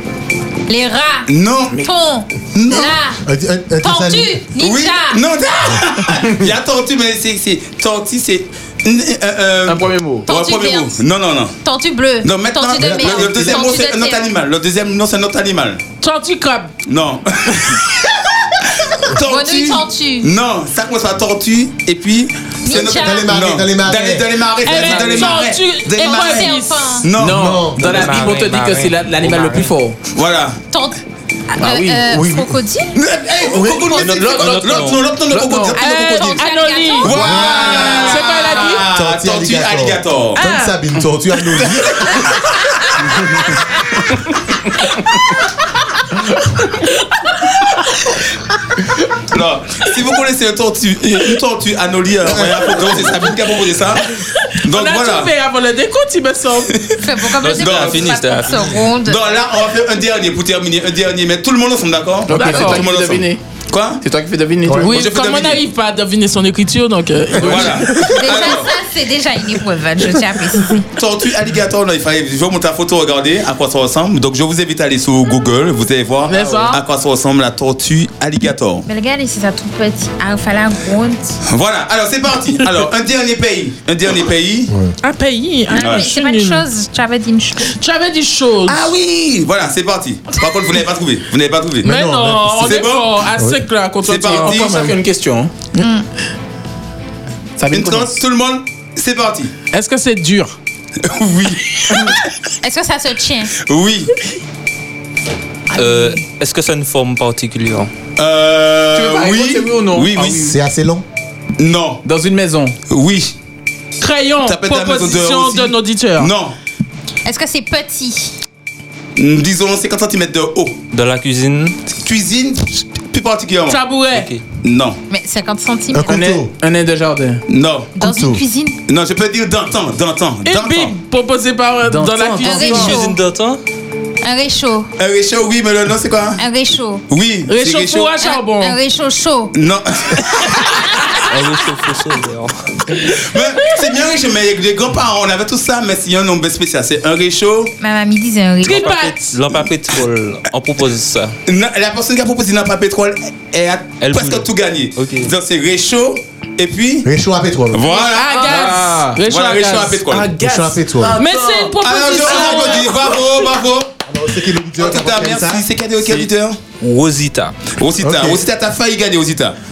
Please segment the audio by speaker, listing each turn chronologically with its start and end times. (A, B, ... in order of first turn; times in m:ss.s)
0:00.7-0:01.3 A
0:01.3-0:01.8 B
0:01.8-0:03.2 A
0:02.5-0:03.0 B
0:03.2-0:04.4 C
0:03.8-0:05.2 A
0:04.6-0:11.6 B
0:09.7-0:10.2 D
0:10.3-0:11.0 A
0:11.6-0:14.3 A
0:12.2-0:15.8 B
0:12.8-0:13.6 C
0:16.0-0:16.7 E
0:16.9-0:27.6 B
0:19.2-0:20.3 A
0:22.6-0:23.3 A
0:22.7-0:24.3 C
0:24.6-0:27.0 E
0:26.0-0:27.1 A
0:27.2-0:30.0 D
0:27.2-0:28.1 C
0:27.8-0:29.7 F
0:30.1-0:30.6 B
0:30.7-0:31.0 A
0:31.6-0:33.0 A
0:31.6-0:32.0 D
0:31.9-0:32.6 C
0:33.0-0:36.5 B
0:33.4-0:34.1 C
0:33.9-0:35.0 F
0:34.0-0:35.8 D
0:35.8-0:38.2 A
0:35.8-0:38.9 E
0:37.0-0:40.4 B
0:37.1-0:38.1 C
0:38.9-0:42.3 C
0:40.4-0:40.8 E
0:41.9-0:42.2 B
0:49.3-0:55.3 B
0:54.6-0:56.7 E
0:57.0-0:59.2 A
0:57.4-0:58.3 B
0:57.4-0:58.8 F
0:59.0-1:04.0 B
1:02.3-1:03.4 D
1:02.3-1:02.8 E
1:04.0-1:05.0 D
1:04.7-1:04.9 C
1:04.8-1:07.8 E
1:04.8-1:05.6 B
1:07.4-1:08.7 B
1:07.4-1:08.0 D
1:08.1-1:10.8 A
1:11.0-1:18.9 B
1:16.3-1:16.8 E
1:18.9-1:21.4 A
1:21.5-1:24.7 B
1:24.7-1:24.9 C
1:25.0-1:26.7 E
1:25.7-1:27.7 A
1:25.8-1:26.1 B
1:27.7-1:28.9 E
1:28.7-1:31.9 B
1:31.8-1:32.8 C
1:31.8-1:34.8 E
1:32.6-1:33.2 B
1:34.0-1:35.0 B
1:34.4-1:35.8 D
1:37.6-1:38.2 D
1:37.7-1:39.5 B
1:39.7-1:40.6 E
1:41.0-1:42.2 B
1:42.6-1:43.5 A
1:43.6-1:44.1 B
1:45.7-1:47.9 F
1:48.2-1:50.4 B
1:48.9-1:50.6 D
1:50.4-1:51.0 C
1:51.6-1:52.0 B
1:52.0-1:52.8 D
1:52.9-1:53.4 B
1:54.0-1:56.3 E
1:54.4-1:56.5 B
1:57.2-1:58.4 A
1:59.2-2:00.8 B
2:00.9-2:01.8 F
2:01.9-2:03.8 B
2:03.7-2:04.3 E
2:04.1-2:04.4 F
2:04.6-2:05.0 B
2:05.1-2:06.2 A
2:05.9-2:06.5 C
2:06.1-2:07.4 D
2:07.5-2:07.9 B
2:08.0-2:08.8 A
2:08.0-2:08.4 C
2:08.9-2:11.0 B
2:10.4-2:13.0 E
2:11.9-2:12.6 D
2:12.4-2:13.2 A
2:12.6-2:13.6 F
2:14.2-2:14.9 A
2:15.0-2:16.4 B
2:16.4-2:17.0 A
2:17.1-2:18.2 B
2:17.5-2:18.8 E
2:18.2-2:19.5 A
2:19.5-2:20.7 B
2:21.3-2:22.7 F
2:23.0-2:27.7 B
2:27.8-2:29.0 A
2:28.6-2:31.4 F
2:28.7-2:29.4 E
2:31.5-2:37.1 B
2:34.0-2:35.3 F
2:37.0-2:37.9 C
2:37.7-2:40.3 B
2:38.0-2:40.1 E
2:38.5-2:39.2 D
2:40.1-2:41.7 D
2:40.3-2:41.2 C
2:41.1-2:43.1 E
2:41.8-2:43.9 B
2:44.1-2:45.6 C
2:44.8-2:46.6 B
2:46.8-2:47.6 F
2:47.8-2:49.6 B
2:48.0-2:48.4 C